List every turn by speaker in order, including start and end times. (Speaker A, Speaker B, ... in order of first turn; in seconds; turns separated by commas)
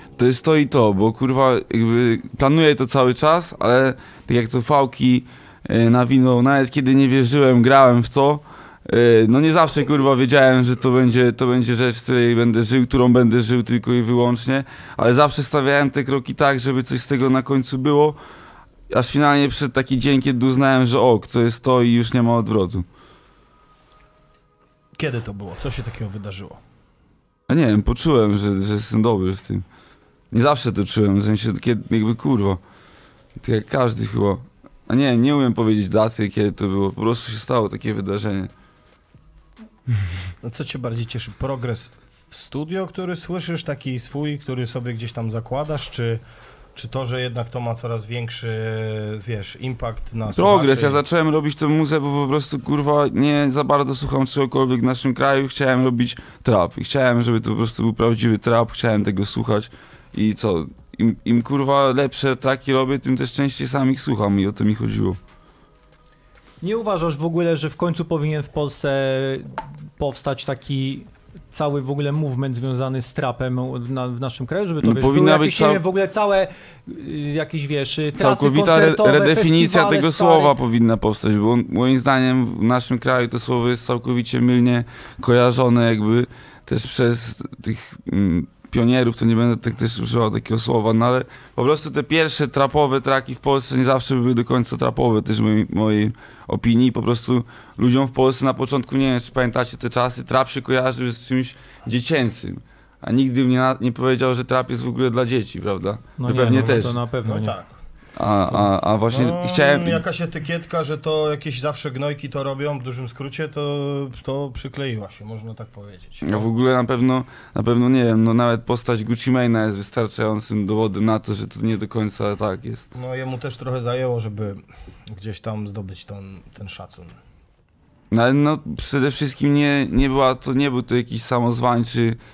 Speaker A: 0.2-18.2, Speaker A: 18.9-22.8, Speaker B: 24.9-26.6, Speaker A: 27.5-29.6, Speaker A: 30.3-32.6, Speaker A: 33.4-38.5, Speaker B: 40.4-46.2, Speaker B: 46.7-51.0, Speaker A: 50.3-65.2, Speaker C: 66.6-80.5, Speaker A: 74.8-75.8, Speaker A: 78.1-107.0, Speaker C: 106.2-107.5, Speaker B: 107.2-107.8, Speaker A: 108.2-110.0, Speaker B: 109.1-116.5, Speaker A: 116.2-122.8, Speaker B: 122.9-127.2, Speaker A: 128.1-132.2